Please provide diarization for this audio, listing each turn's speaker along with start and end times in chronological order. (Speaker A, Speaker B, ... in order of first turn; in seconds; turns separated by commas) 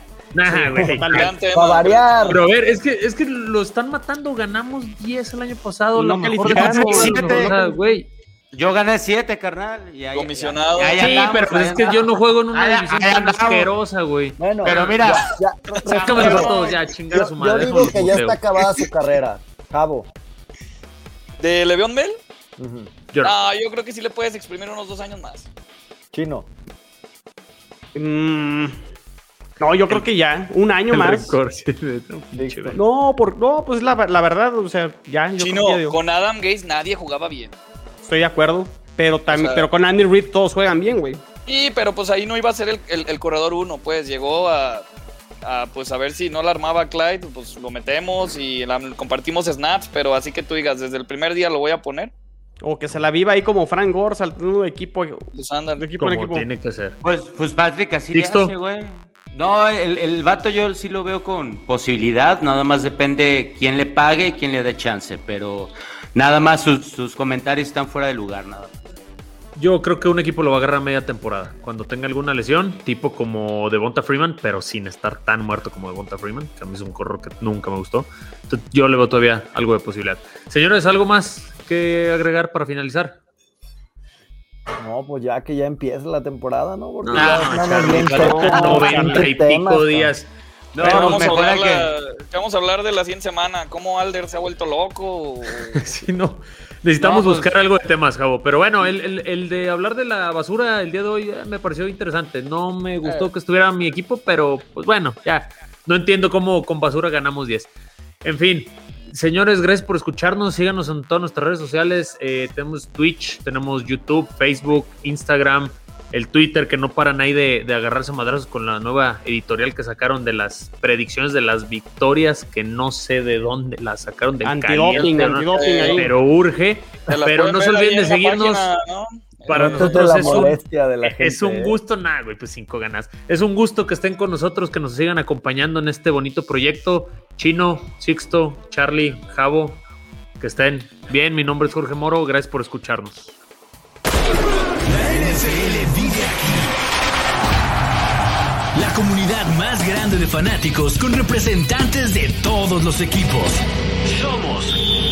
Speaker A: 0.3-1.3, Speaker B: 0.5-1.4, Speaker C: 1.1-2.3, Speaker D: 1.5-2.5, Speaker A: 2.2-8.1, Speaker B: 5.9-7.6, Speaker E: 6.5-7.6, Speaker E: 8.5-13.7, Speaker C: 10.1-11.3, Speaker A: 11.0-15.2, Speaker D: 14.4-20.1, Speaker E: 14.6-16.8, Speaker A: 15.9-18.4, Speaker C: 21.4-22.2, Speaker D: 22.6-22.9, Speaker C: 23.2-25.5, Speaker D: 26.1-26.5, Speaker B: 27.9-28.8, Speaker B: 29.6-31.4, Speaker A: 30.9-32.8, Speaker D: 32.3-32.8, Speaker B: 32.8-36.0, Speaker C: 35.4-37.5, Speaker B: 38.0-41.2, Speaker C: 39.3-39.7, Speaker C: 41.5-44.9, Speaker C: 45.4-52.1, Speaker B: 52.6-56.5, Speaker C: 55.3-55.9, Speaker A: 56.0-57.0, Speaker E: 57.0-68.8, Speaker A: 58.1-58.5, Speaker A: 69.6-83.2, Speaker D: 84.8-90.1, Speaker A: 87.0-90.3, Speaker E: 87.1-88.8, Speaker B: 88.1-89.2, Speaker E: 90.7-91.9, Speaker C: 90.8-95.8, Speaker A: 90.8-91.3, Speaker A: 95.8-107.7, Speaker E: 97.0-97.5, Speaker A: 108.2-128.7, Speaker B: 124.4-126.1, Speaker C: 125.0-126.1, Speaker C: 127.1-130.4, Speaker A: 129.5-139.8, Speaker D: 129.5-131.8, Speaker A: 140.4-143.4, Speaker F: 144.9-146.8, Speaker F: 148.8-154.8